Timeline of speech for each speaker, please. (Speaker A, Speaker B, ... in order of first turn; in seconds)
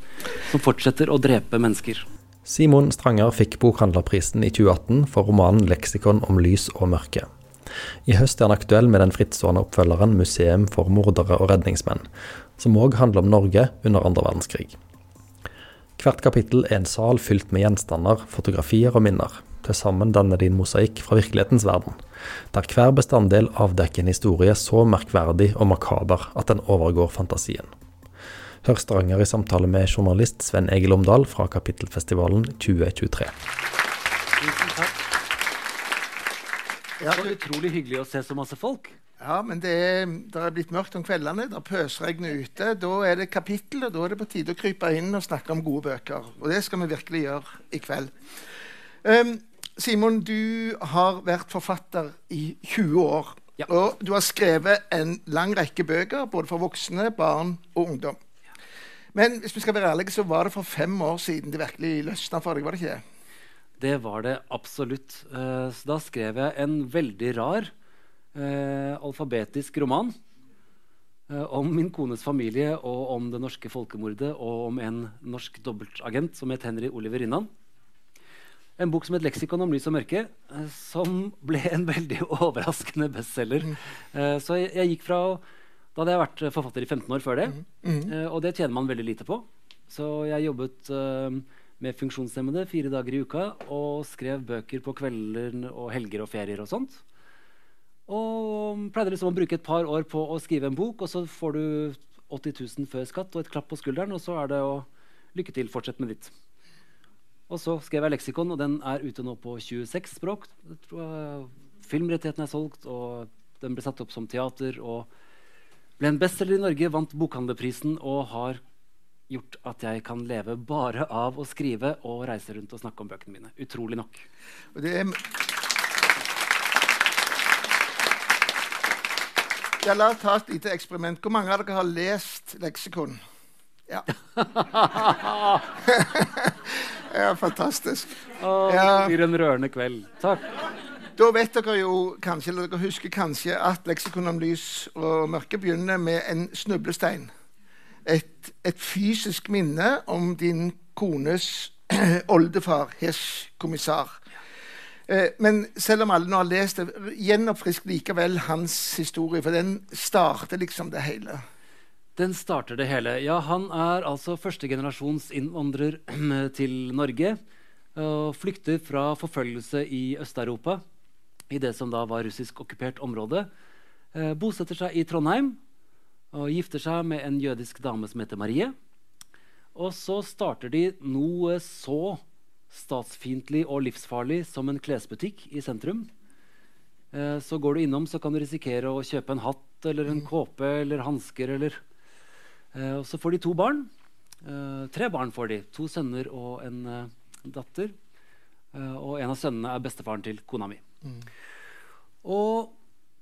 Speaker A: 0.3-2.0, 34.4-35.0, 37.1-39.0, 63.8-67.7, 68.3-70.1, 71.3-77.5, 78.8-85.4, 85.9-97.0, 98.1-106.3, 107.5-115.1, 116.0-118.6, 119.3-124.3, 134.3-135.7, 138.4-140.5, 162.2-167.4, 167.9-170.8, 171.5-173.5, 174.1-175.6, 176.3-178.7, 179.7-186.1, 187.1-191.8, 192.7-193.9, 194.4-197.9, 198.7-200.8, 202.2-202.7
Speaker B: 2.5-7.3, 8.1-12.1, 12.6-14.8, 16.0-22.0, 22.5-27.7, 28.6-33.3
Speaker C: 37.0-37.4, 39.2-58.2, 59.1-63.0, 87.8-88.1, 124.7-125.3, 129.8-133.2, 135.8-139.2, 141.2-147.3, 148.0-154.2, 155.1-161.4